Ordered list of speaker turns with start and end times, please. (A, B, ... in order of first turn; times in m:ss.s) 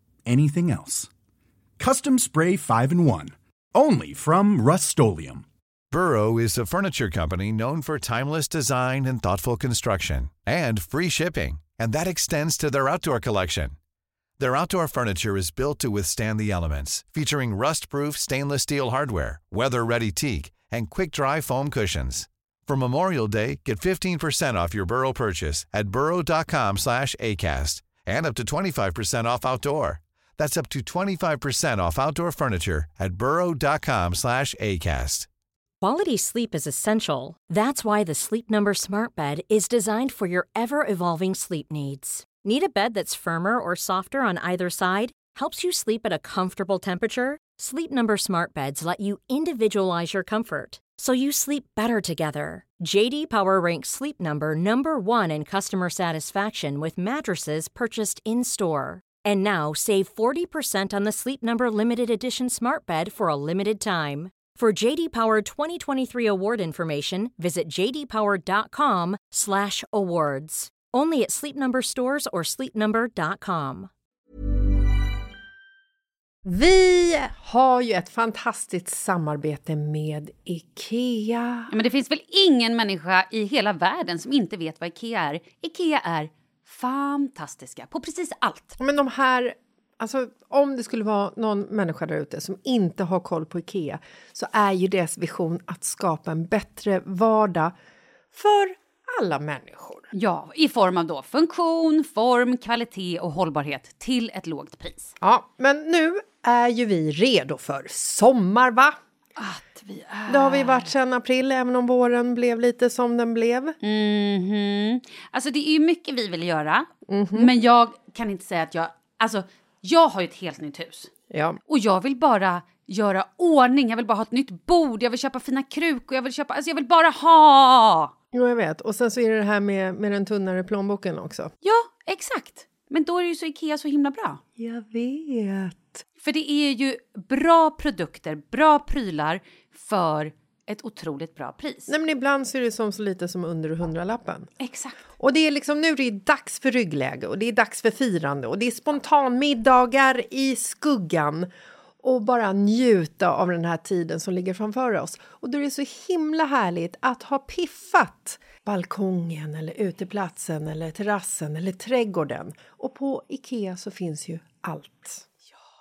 0:00.3-0:01.1 A
0:01.8-0:05.4 A
0:05.9-0:13.7 B
0:14.4-0:35.3 B
0:35.8-1:13.9 C
1:16.4-1:21.7 D
1:21.7-1:28.8 E
1:28.8-1:37.7 D
1:38.3-1:40.1 D
1:40.1-1:45.1 E
1:45.2-1:48.9 D
1:49.4-1:50.9 E
1:50.3-1:53.8 D
1:53.8-2:01.1 E
1:57.1-1:57.5 D
2:01.3-2:01.6 D
2:01.7-2:08.1 E
2:08.3-2:11.5 D
2:11.6-2:14.4 E
2:14.6-2:16.0 D
2:16.2-2:21.9 E
2:21.9-2:24.5 D
2:24.6-2:25.0 E
2:25.2-2:31.5 D
2:32.0-2:45.2 D